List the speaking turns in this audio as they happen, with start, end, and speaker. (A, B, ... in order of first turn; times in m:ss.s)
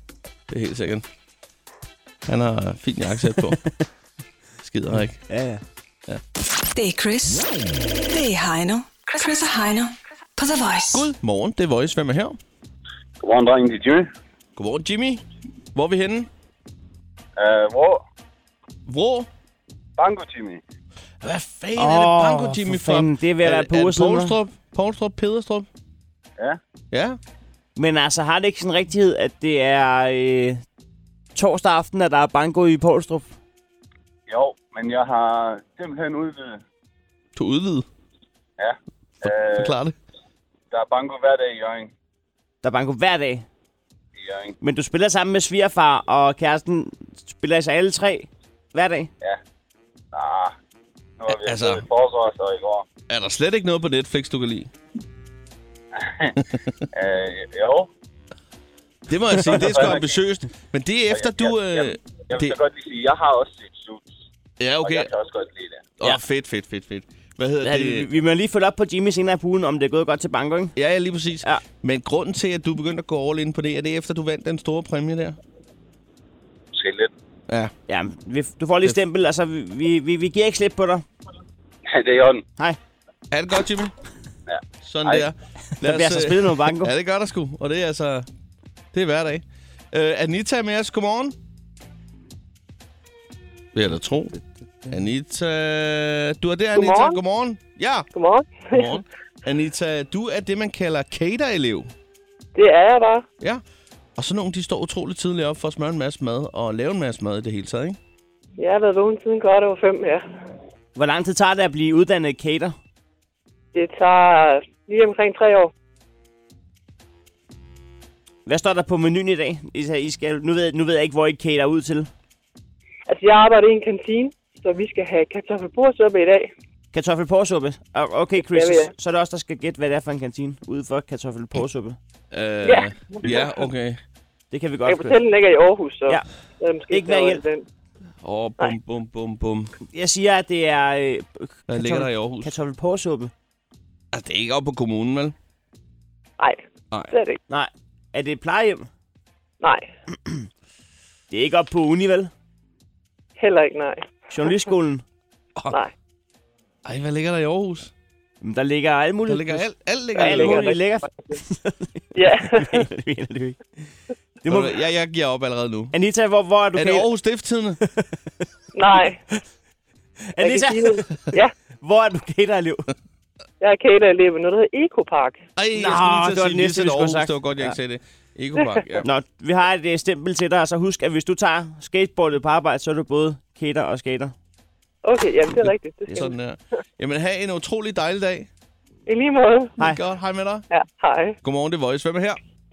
0:00.5-0:01.0 A
0:02.2-0:03.6 A
0:03.3-0:03.7 B
0:04.6-0:05.2 A
0:05.3-0:05.6 B
0:06.7-0:07.5 C
0:08.1-0:11.1 C
0:10.9-0:12.4 A
0:13.2-0:14.1 D
0:14.6-0:16.3 A
0:17.4-0:18.0 D
0:18.8-0:19.3 A
0:20.0-0:20.6 D
0:21.2-0:25.7 A
0:21.8-0:24.4 B
0:26.9-0:27.2 A
0:27.8-0:30.6 B
0:31.3-0:33.3 B
0:34.3-0:36.6 D
0:37.4-0:37.9 A
0:38.6-0:39.8 D
0:39.2-0:40.0 A
0:40.7-0:41.9 D
0:42.6-0:43.4 B
0:44.2-0:44.6 D
0:44.6-0:49.1 B
0:50.1-0:50.5 D
0:51.2-0:52.8 D
0:51.3-0:51.8 A
0:53.1-0:54.7 A
0:55.9-0:56.4 D
0:56.5-0:56.8 A
0:56.9-0:57.9 D
0:59.1-1:02.6 A
0:59.4-1:00.2 D
1:01.1-1:04.1 D
1:04.6-1:05.1 A
1:04.8-1:05.9 D
1:06.0-1:08.1 A
1:07.6-1:10.7 B
1:10.8-1:15.4 A
1:16.7-1:17.1 D
1:17.9-1:21.0 B
1:21.9-1:22.4 D
1:23.3-1:23.9 A
1:24.5-1:25.3 D
1:24.8-1:28.3 A
1:25.8-1:26.9 B
1:28.9-1:31.3 A
1:33.7-1:38.1 A
1:36.7-1:37.2 E
1:38.1-1:38.9 E
1:38.7-1:41.9 A
1:42.6-1:43.2 E
1:44.2-1:48.0 A
1:48.6-1:50.2 E
1:51.0-1:52.8 B
1:53.7-1:55.7 E
1:58.4-2:02.1 B
2:03.1-2:06.5 E
2:06.9-2:12.0 B
2:08.5-2:08.9 E
2:12.3-2:14.0 A
2:12.6-2:13.6 E
2:14.5-2:15.2 B
2:14.8-2:17.6 E
2:16.9-2:17.4 B
2:18.2-2:19.7 A
2:19.9-2:23.3 B
2:21.7-2:22.5 A
2:24.1-2:25.3 A
2:26.4-2:27.4 E
2:27.5-2:28.9 B
2:29.6-2:29.9 E
2:31.3-2:32.3 B
2:33.4-2:34.1 E
2:34.3-2:35.0 B
2:36.8-2:37.9 A
2:38.4-2:43.9 B
2:39.2-2:40.6 A
2:40.2-2:41.4 E
2:42.1-2:42.8 E
2:44.4-2:44.7 B
2:44.5-2:45.9 A
2:45.9-2:47.1 B
2:46.7-2:47.8 A
2:47.8-2:48.1 B
2:48.7-2:49.2 E
2:50.3-2:51.1 B
2:50.4-2:51.5 E
2:51.8-2:52.9 B
2:53.6-2:55.4 E
2:55.6-2:59.1 A
2:55.7-2:57.7 B
2:59.0-3:04.3 B
3:05.0-3:06.3 E
3:05.6-3:08.5 A
3:09.1-3:09.8 E
3:09.8-3:10.6 A
3:10.7-3:11.3 E
3:11.4-3:12.4 A